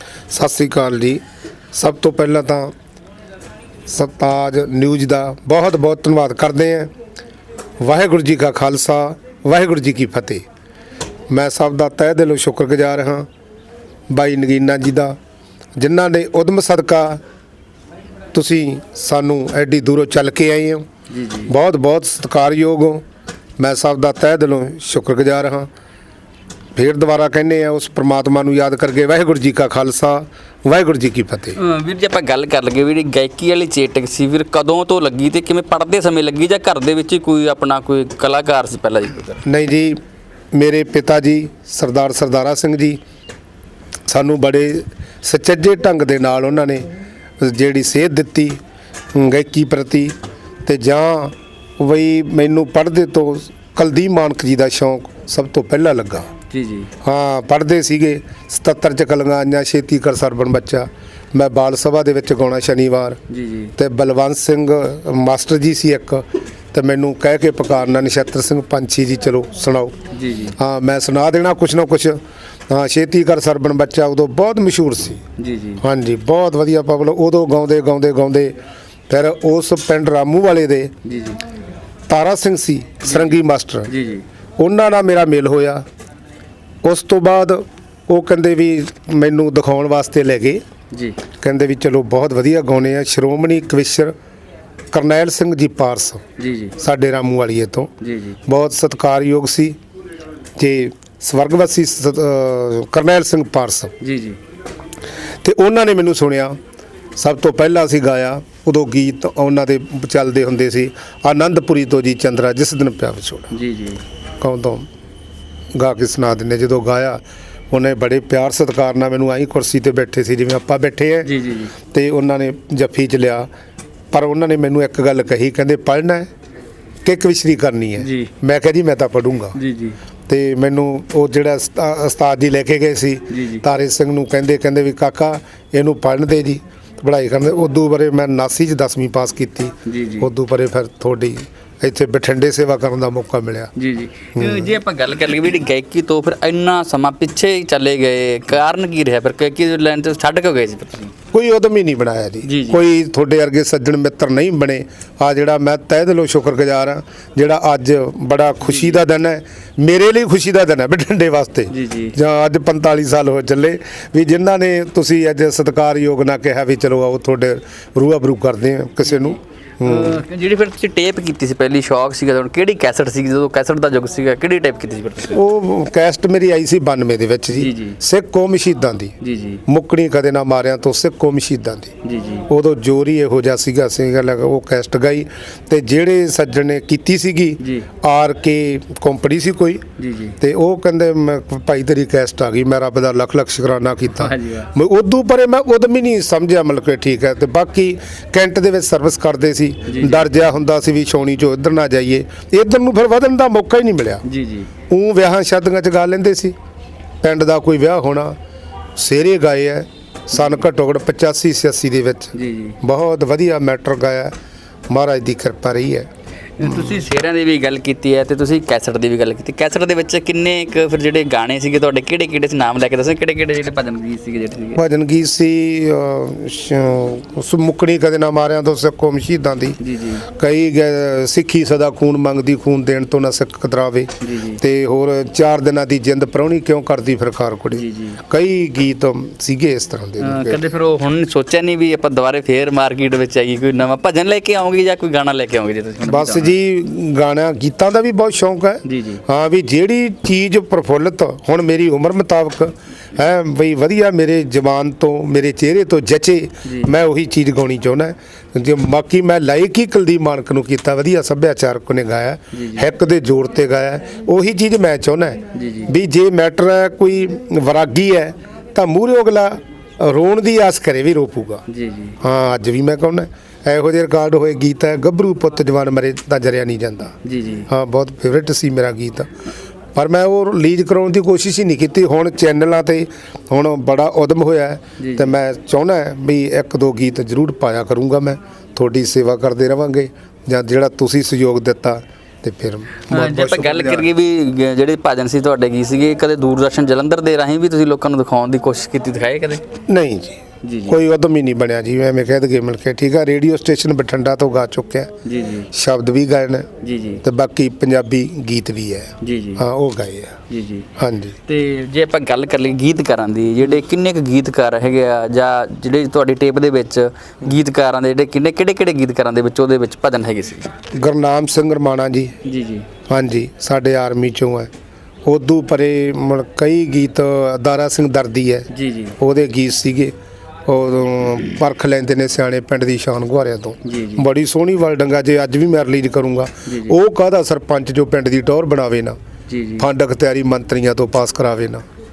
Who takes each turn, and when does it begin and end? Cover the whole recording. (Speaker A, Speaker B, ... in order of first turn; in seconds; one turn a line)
Speaker A: 0.3-1.2
Speaker A: 1.7-2.7
Speaker A: 3.9-6.9
Speaker A: 7.8-10.4
Speaker A: 11.3-13.3
Speaker A: 14.1-15.2
Speaker A: 15.8-17.2
Speaker A: 18.3-20.8
Speaker B: 21.1-21.5
Speaker A: 21.5-23.0
Speaker A: 23.6-25.7
Speaker A: 26.8-31.6
Speaker B: 31.6-39.4
Speaker A: 39.4-40.0
Speaker A: 40.5-43.0
Speaker A: 44.1-46.9
Speaker A: 47.4-48.6
Speaker A: 49.1-56.3
Speaker B: 56.5-56.9
Speaker A: 57.0-63.2
Speaker B: 63.3-63.7
Speaker A: 63.8-69.9
Speaker B: 70.1-70.5
Speaker A: 70.6-75.2
Speaker B: 75.4-75.8
Speaker A: 75.8-78.5
Speaker A: 79.1-80.9
Speaker B: 81.0-81.4
Speaker A: 82.1-83.9
Speaker B: 83.1-83.4
Speaker B: 83.9-84.2
Speaker A: 84.6-85.8
Speaker A: 86.8-90.6
Speaker B: 90.9-91.2
Speaker A: 91.4-94.1
Speaker A: 94.9-96.2
Speaker B: 96.4-96.7
Speaker A: 96.8-97.9
Speaker B: 98.0-98.4
Speaker A: 98.5-99.8
Speaker A: 100.6-103.9
Speaker B: 104.0-104.4
Speaker A: 105.4-106.6
Speaker A: 107.2-113.5
Speaker B: 113.5-114.0
Speaker A: 114.4-114.8
Speaker A: 115.7-121.3
Speaker B: 121.2-121.7
Speaker A: 121.9-123.5
Speaker A: 124.1-126.3
Speaker A: 127.0-129.6
Speaker B: 128.0-128.3
Speaker B: 129.5-130.0
Speaker A: 130.3-143.7
Speaker B: 133.3-133.6
Speaker B: 139.8-140.3
Speaker B: 143.8-151.1
Speaker A: 144.3-144.7
Speaker A: 151.3-170.2
Speaker B: 152.4-152.8
Speaker B: 158.6-159.0
Speaker B: 161.7-162.1
Speaker B: 169.0-175.4
Speaker A: 175.3-179.1
Speaker B: 177.5-178.0
Speaker B: 179.2-179.6
Speaker A: 179.7-181.9
Speaker B: 182.0-182.5
Speaker A: 182.5-189.8
Speaker B: 187.6-187.8
Speaker B: 190.0-190.4
Speaker A: 190.4-204.2
Speaker B: 194.1-194.7
Speaker B: 199.8-200.3
Speaker B: 204.2-204.7
Speaker A: 204.9-206.5
Speaker A: 207.2-208.3
Speaker A: 208.9-214.3
Speaker B: 210.3-210.6
Speaker B: 212.3-212.8
Speaker A: 214.9-216.1
Speaker B: 216.6-224.8
Speaker A: 216.6-217.0
Speaker A: 224.7-240.6
Speaker B: 229.8-230.2
Speaker B: 234.2-234.6
Speaker B: 237.7-238.2
Speaker B: 240.2-246.5
Speaker A: 246.0-271.6
Speaker B: 248.8-249.2
Speaker B: 256.6-256.9
Speaker B: 262.5-262.9
Speaker B: 265.5-265.9
Speaker B: 271.7-272.2
Speaker A: 272.2-277.1
Speaker B: 277.2-277.7
Speaker A: 277.7-279.3
Speaker A: 279.9-294.1
Speaker B: 285.0-285.3
Speaker B: 293.1-299.6
Speaker A: 299.9-305.1
Speaker B: 300.6-301.0
Speaker B: 305.2-305.7
Speaker A: 305.7-306.7
Speaker B: 306.8-307.2
Speaker A: 307.2-310.4
Speaker B: 309.2-309.6
Speaker B: 310.5-310.9
Speaker A: 311.0-311.4
Speaker B: 311.5-320.7
Speaker A: 320.9-322.3
Speaker B: 322.4-322.9
Speaker A: 323.1-324.7
Speaker A: 325.2-330.1
Speaker B: 328.7-329.1
Speaker A: 330.6-339.2
Speaker B: 333.8-334.2
Speaker B: 336.6-336.9
Speaker B: 339.5-339.9
Speaker A: 339.8-341.8